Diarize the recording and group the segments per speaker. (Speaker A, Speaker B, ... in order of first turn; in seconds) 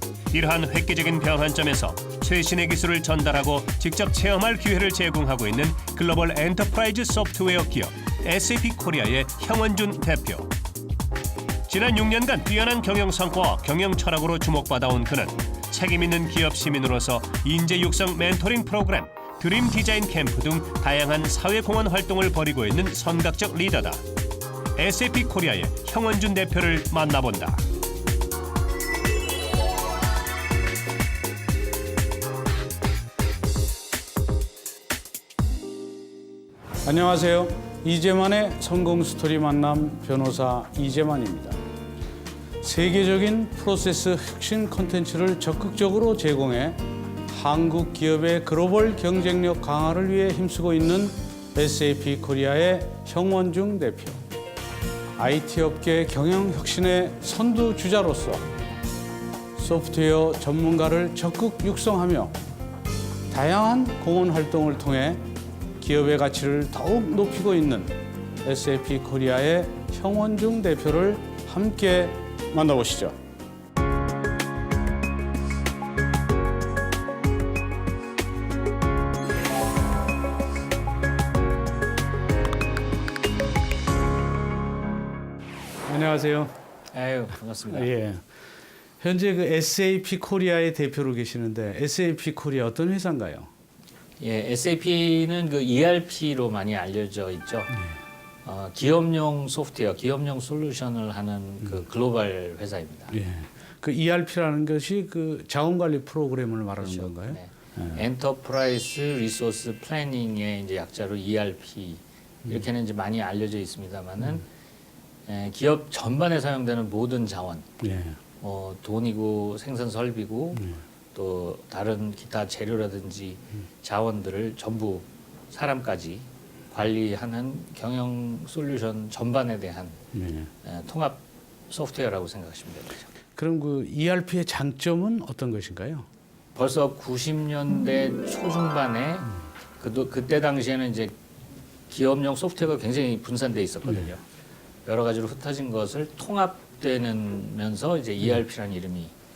Speaker A: 0.3-10.5, 11.7-24.0, 24.8-27.6
Speaker B: 36.8-41.6, 42.6-54.2, 55.2-58.5, 59.6-62.4, 63.3-65.3, 65.8-73.2, 85.8-86.5, 87.7-88.3, 89.0-93.5, 97.7-98.0, 103.1-108.0, 117.8-118.2, 130.1-130.5, 133.3-136.1
Speaker C: 86.9-87.9, 94.2-97.8, 98.5-103.2, 106.8-114.5, 115.3-117.7, 118.4-130.0, 130.6-133.1, 136.6-141.2, 141.9-144.2, 144.9-149.1